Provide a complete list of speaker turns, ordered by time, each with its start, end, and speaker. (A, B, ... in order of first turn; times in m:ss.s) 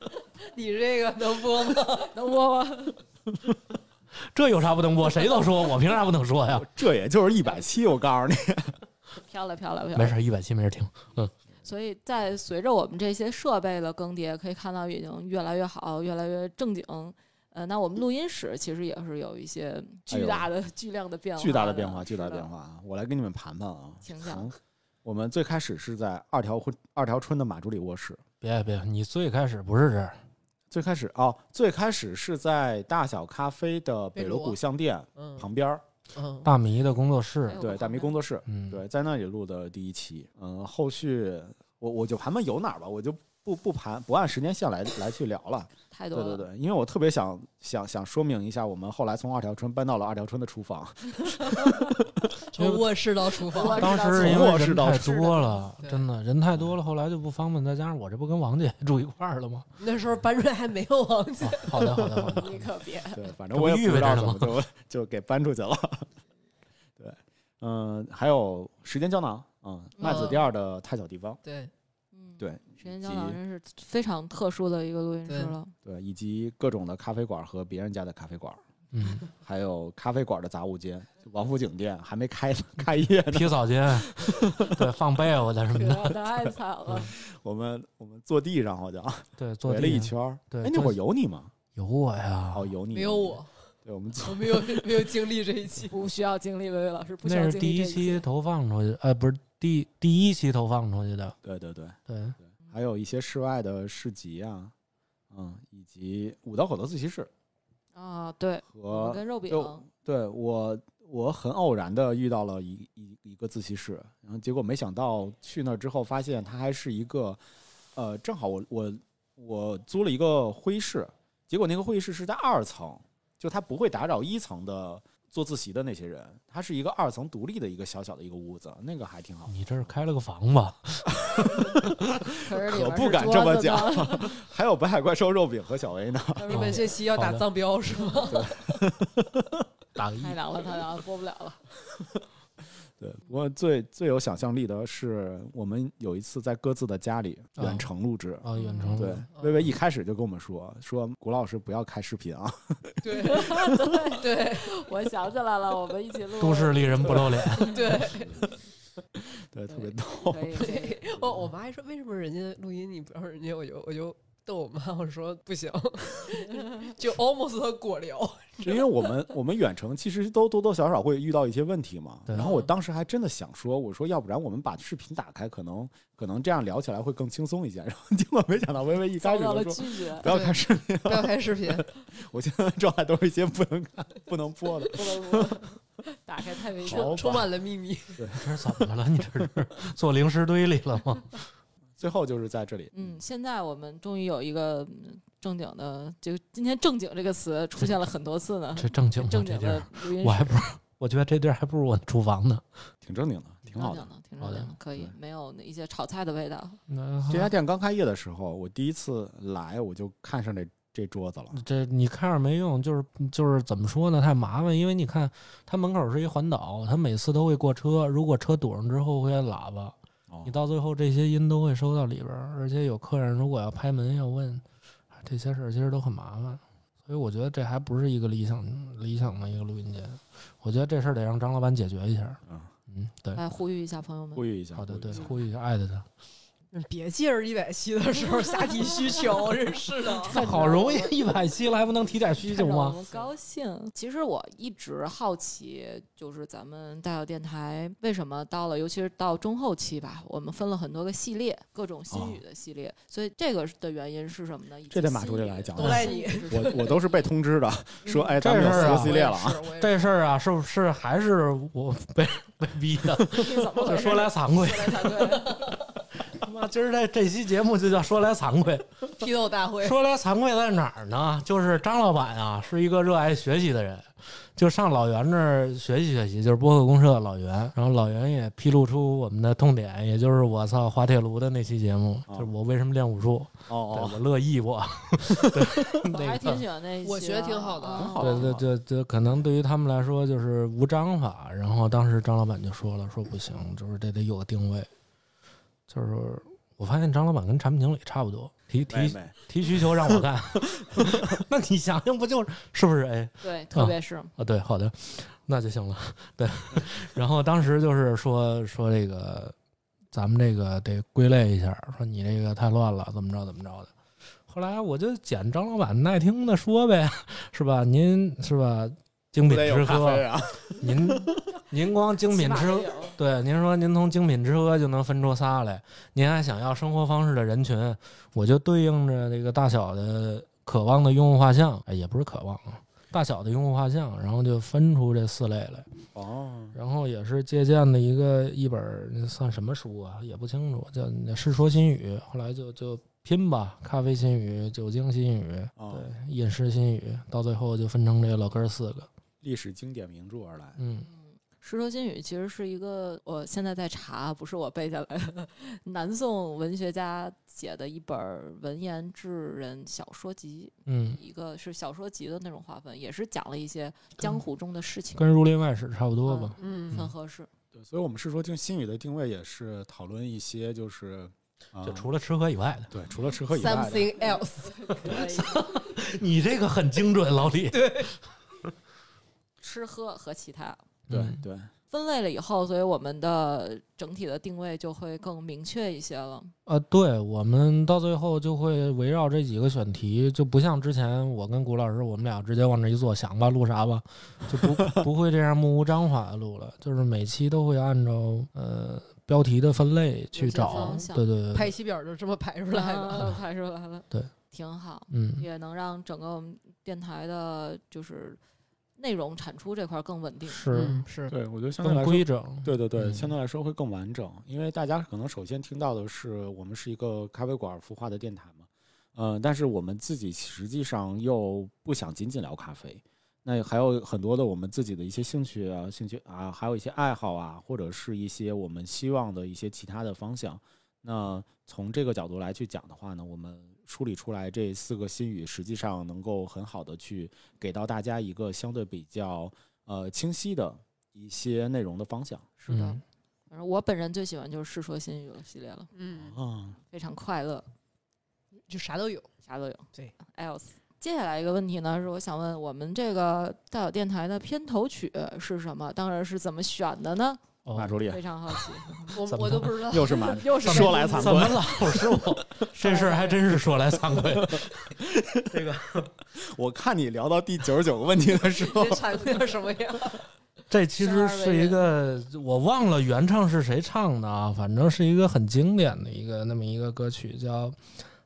0:00.5-0:02.1 A
0:02.1-0:03.0 B
0:04.3-0:06.7 C
0:06.5-0:08.8 D
0:09.2-0:10.2 B
0:10.0-0:11.3 C
0:11.6-0:22.5 B
0:20.1-0:20.5 D
0:21.4-0:28.2 D
0:24.0-0:24.5 B
0:28.4-0:30.2 C
0:30.7-0:35.8 D
0:34.1-0:34.6 A
0:35.2-0:35.5 A
0:36.1-0:36.5 A
0:36.4-0:37.6 C
0:37.5-0:38.2 B
0:37.6-0:52.3 D
0:38.5-0:38.8 C
0:45.9-0:46.5 B
0:52.5-0:53.9 A
0:52.6-0:52.9 C
0:53.5-0:54.5 B
0:53.6-0:59.7 C
0:53.9-0:55.5 D
0:55.8-0:56.1 A
0:59.8-1:02.2 A
1:01.4-1:02.7 C
1:02.3-1:03.3 B
1:03.1-1:06.1 D
1:03.5-1:04.6 C
1:07.0-1:11.4 D
1:10.0-1:10.4 B
1:10.0-1:10.3 A
1:11.4-1:11.7 A
1:12.2-1:15.7 B
1:12.4-1:13.4 D
1:15.3-1:15.6 A
1:15.8-1:18.6 D
1:18.9-1:19.3 C
1:19.3-1:24.9 D
1:23.3-1:26.2 C
1:25.7-1:27.1 B
1:27.0-1:31.5 D
1:29.4-1:31.0 C
1:31.8-1:32.7 C
1:32.5-1:35.1 D
1:32.9-1:33.5 A
1:34.2-1:36.0 A
1:35.9-1:38.2 B
1:37.3-1:41.4 C
1:41.4-1:44.7 D
1:42.1-1:42.4 C
1:45.3-1:47.3 D
1:48.0-1:49.8 B
1:48.7-1:57.4 D
1:58.0-2:09.6 D
2:09.5-2:11.2 C
2:11.1-2:16.7 D
2:11.7-2:12.0 C
2:12.4-2:14.4 B
2:16.4-2:17.0 B
2:16.5-2:18.8 A
2:16.5-2:17.4 C
2:18.0-2:18.3 B
2:18.3-2:19.6 D
2:20.0-2:20.4 C
2:20.2-2:21.6 B
2:21.9-2:22.2 D
2:23.0-2:33.9 D
2:27.6-2:27.9 C
2:28.4-2:29.3 C
2:28.6-2:29.1 B
2:29.3-2:29.7 A
2:33.0-2:33.6 A
2:33.2-2:38.1 B
2:34.2-2:34.7 A
2:36.4-2:37.9 C
2:37.6-2:38.4 A
2:39.2-2:41.5 D
2:39.7-2:41.0 B
2:40.6-2:49.1 A
2:46.6-2:46.9 B
2:48.6-3:05.6 D
2:52.4-2:52.7 A
2:59.2-3:00.3 B
3:00.3-3:01.9 A
3:04.9-3:07.4 B
3:06.8-3:07.5 D
3:06.9-3:08.2 A
3:08.2-3:08.5 D
3:08.4-3:11.5 C
3:12.0-3:13.2 D
3:12.9-3:20.6 B
3:18.8-3:22.6 C
3:23.0-3:24.1 D
3:23.8-3:26.8 B
3:24.4-3:24.7 C
3:26.9-3:27.5 C
3:27.3-3:31.6 D
3:31.5-3:44.6 C
3:40.3-3:40.6 D
3:45.2-3:53.4 C
3:52.5-3:52.7 D
3:53.4-3:54.5 B
3:54.4-3:55.3 D
3:54.8-3:56.1 C
3:56.7-4:00.7 A
4:00.2-4:01.3 B
4:00.3-4:03.0 C
4:02.4-4:17.1 B
4:12.1-4:12.4 D
4:14.9-4:19.6 D
4:15.8-4:16.8 A
4:18.1-4:20.1 A
4:18.4-4:25.6 C
4:23.3-4:25.7 B
4:26.2-4:29.1 C
4:29.2-4:30.0 A
4:29.8-4:46.6 C
4:43.7-4:44.2 D
4:45.4-4:45.9 D
4:46.1-4:48.5 B
4:47.0-4:48.2 A
4:48.0-4:48.7 D
4:48.2-4:54.9 C
4:55.9-5:09.6 C
4:58.9-5:01.3 D
5:03.4-5:04.3 B
5:10.1-5:13.9 C
5:14.5-5:35.9 C
5:19.4-5:21.4 D
5:22.3-5:23.2 B
5:36.2-5:36.8 D
5:36.7-5:49.1 C
5:45.8-5:46.1 D
5:49.4-5:50.8 D
5:50.8-5:51.1 C
5:51.1-6:05.3 B
6:00.9-6:01.2 C
6:05.2-6:07.1 C
6:06.2-6:07.5 B
6:06.6-6:07.0 A
6:07.7-6:12.1 D
6:11.8-6:12.9 C
6:12.9-6:14.2 D
6:13.5-6:14.9 A
6:14.2-6:15.8 B
6:15.0-6:18.1 C
6:17.7-6:18.1 A
6:19.6-6:20.8 B
6:21.1-6:21.4 C
6:21.1-6:21.7 D
6:21.9-6:26.5 B
6:26.7-6:41.7 C
6:34.6-6:35.0 D
6:40.3-6:41.3 B
6:40.6-6:43.4 A
6:42.7-6:48.4 B
6:45.1-6:45.4 C
6:49.0-6:50.7 B
6:50.5-6:51.1 C
6:50.7-6:51.3 A
6:51.3-7:22.5 D
6:51.8-6:53.3 C
7:22.6-7:25.9 B
7:22.7-7:23.0 C
7:26.0-7:26.4 A
7:26.1-7:26.8 D
7:26.9-7:27.7 B
7:28.7-7:29.3 A
7:29.5-7:37.4 B
7:37.7-7:38.0 C
7:37.7-7:38.2 D
7:38.0-7:39.2 B
7:39.1-7:40.7 A
7:39.2-7:40.0 C
7:39.8-7:42.6 D
7:40.1-7:41.6 B
7:40.6-7:45.0 C
7:42.7-7:43.4 B
7:44.1-7:45.7 D
7:45.5-7:46.1 C
7:46.3-7:49.3 D
7:48.5-7:50.3 A
7:50.7-7:57.8 C
7:51.0-7:51.9 B